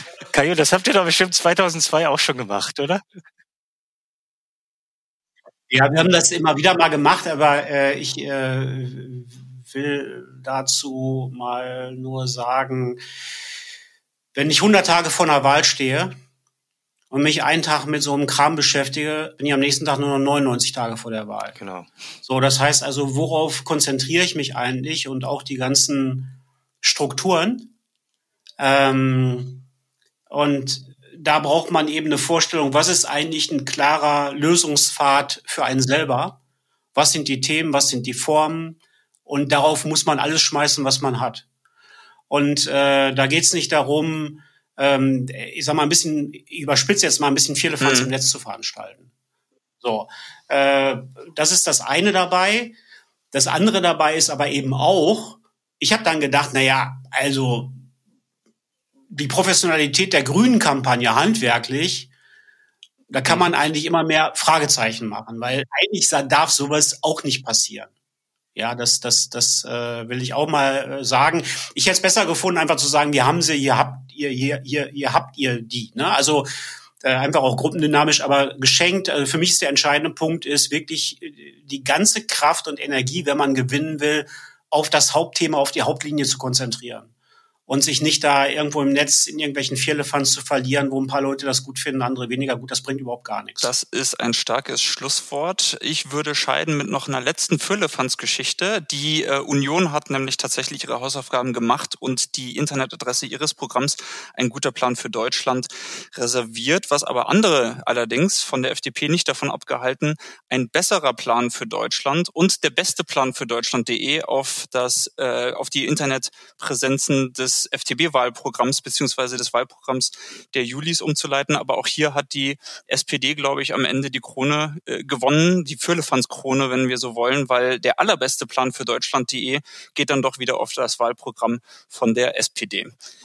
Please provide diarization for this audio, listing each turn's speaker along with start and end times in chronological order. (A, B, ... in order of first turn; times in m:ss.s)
0:00.3-0:03.0 A
0:05.7-0:13.0 B
0:14.3-0:16.1 B
0:17.1-0:21.6 B
0:21.6-0:21.9 A
0:22.2-0:27.7 B
0:28.6-0:29.6 B
0:30.3-0:36.4 B
0:36.9-0:41.4 B
0:42.3-0:49.1 B
0:47.8-0:48.1 C
0:49.8-0:52.7 B
0:53.3-0:57.8 B
0:59.1-1:02.1 B
1:03.1-1:07.9 B
1:08.5-1:16.5 B
1:17.0-1:27.1 B
1:27.7-1:33.7 B
1:33.6-2:12.9 C